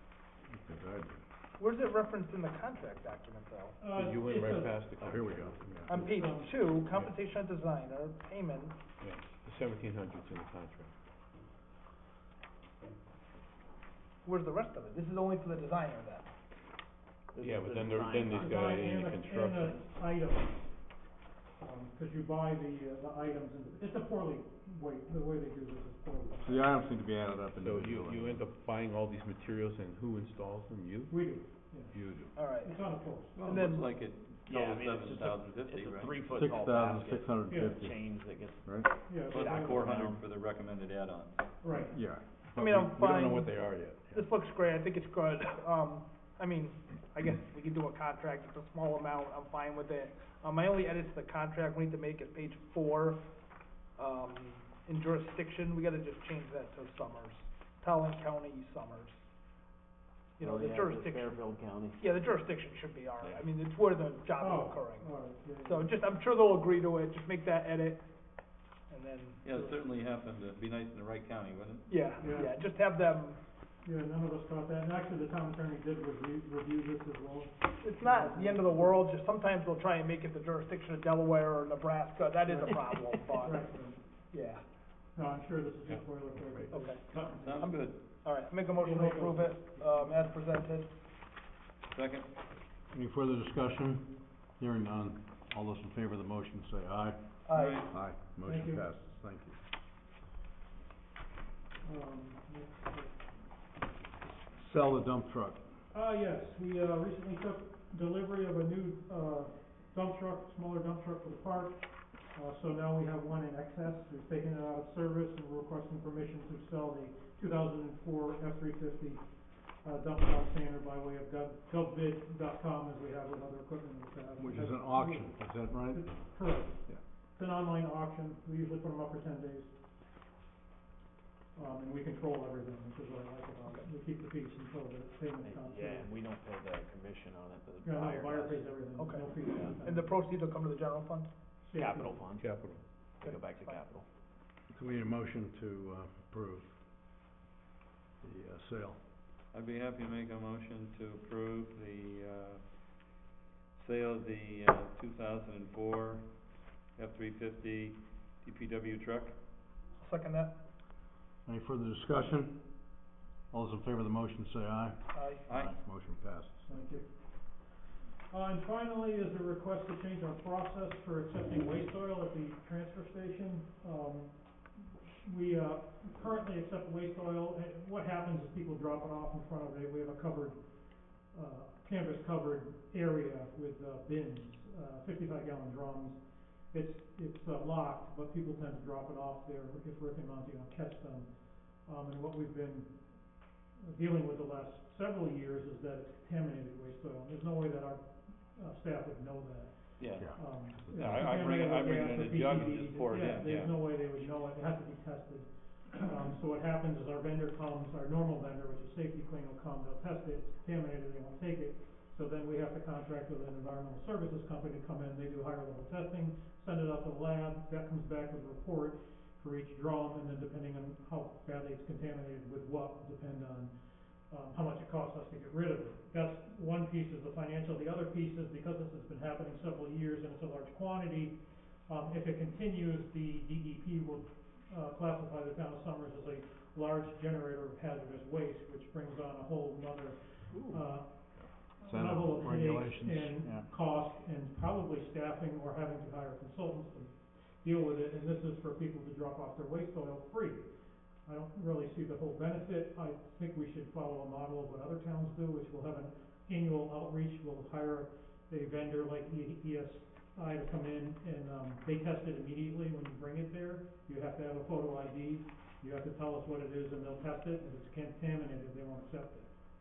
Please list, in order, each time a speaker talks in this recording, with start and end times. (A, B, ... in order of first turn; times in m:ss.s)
0:00.5-0:01.2 A
0:01.6-0:03.8 B
0:03.8-0:04.8 C
0:03.9-0:06.0 D
0:05.0-0:05.9 A
0:05.8-0:08.8 B
0:05.9-0:06.7 C
0:06.8-0:07.1 D
0:09.0-0:10.9 D
0:14.2-0:16.3 B
0:17.3-0:19.1 E
0:17.4-0:19.9 D
0:18.4-0:21.0 C
0:21.6-0:26.7 C
0:26.4-0:28.4 A
0:27.6-0:31.2 D
0:31.1-0:33.4 C
0:31.9-0:32.3 D
0:32.3-0:32.8 B
0:33.3-0:36.4 F
0:33.4-0:33.9 B
0:34.5-0:40.2 E
0:36.3-0:38.1 A
0:37.5-0:37.8 C
0:39.0-0:39.9 C
0:39.3-0:41.5 F
0:41.6-0:41.9 C
0:41.9-0:44.3 A
0:42.6-0:43.6 B
0:44.1-0:53.2 B
0:54.0-0:59.2 B
1:00.4-1:01.4 B
1:00.4-1:02.0 E
1:02.0-1:08.0 B
1:03.2-1:03.4 E
1:04.4-1:05.9 C
1:08.9-1:09.8 B
1:09.4-1:12.1 F
1:11.9-1:13.4 B
1:12.2-1:12.6 C
1:13.8-1:19.0 C
1:17.8-1:23.8 B
1:22.4-1:24.0 C
1:24.3-1:24.6 B
1:25.1-1:28.2 C
1:25.8-1:26.7 D
1:26.7-1:30.9 B
1:27.1-1:28.2 F
1:28.7-1:30.2 C
1:31.9-1:32.3 F
1:32.9-1:37.2 A
1:37.4-1:37.9 B
1:37.5-1:37.9 F
1:37.9-1:39.6 A
1:38.4-1:38.9 C
1:41.8-1:43.3 C
1:44.5-1:45.7 A
1:45.9-2:09.7 C
2:04.4-2:07.0 A
2:11.5-2:16.1 C
2:15.4-2:18.8 E
2:17.8-2:20.1 C
2:18.8-2:21.3 B
2:19.4-2:19.8 E
2:21.6-2:22.3 C
2:21.7-2:24.1 E
2:22.4-2:23.0 D
2:23.2-2:23.8 B
2:24.7-2:26.8 A
2:28.2-2:29.0 A
2:29.5-2:33.0 F
2:33.7-2:39.4 F
2:40.0-2:40.6 B
2:41.4-2:42.9 A
2:43.5-2:47.0 A
2:45.1-2:45.4 B
2:45.4-2:45.8 F
2:46.6-2:47.6 C
2:48.3-4:29.6 C
3:20.0-3:23.7 F
3:23.4-3:23.7 D
4:01.8-4:03.6 A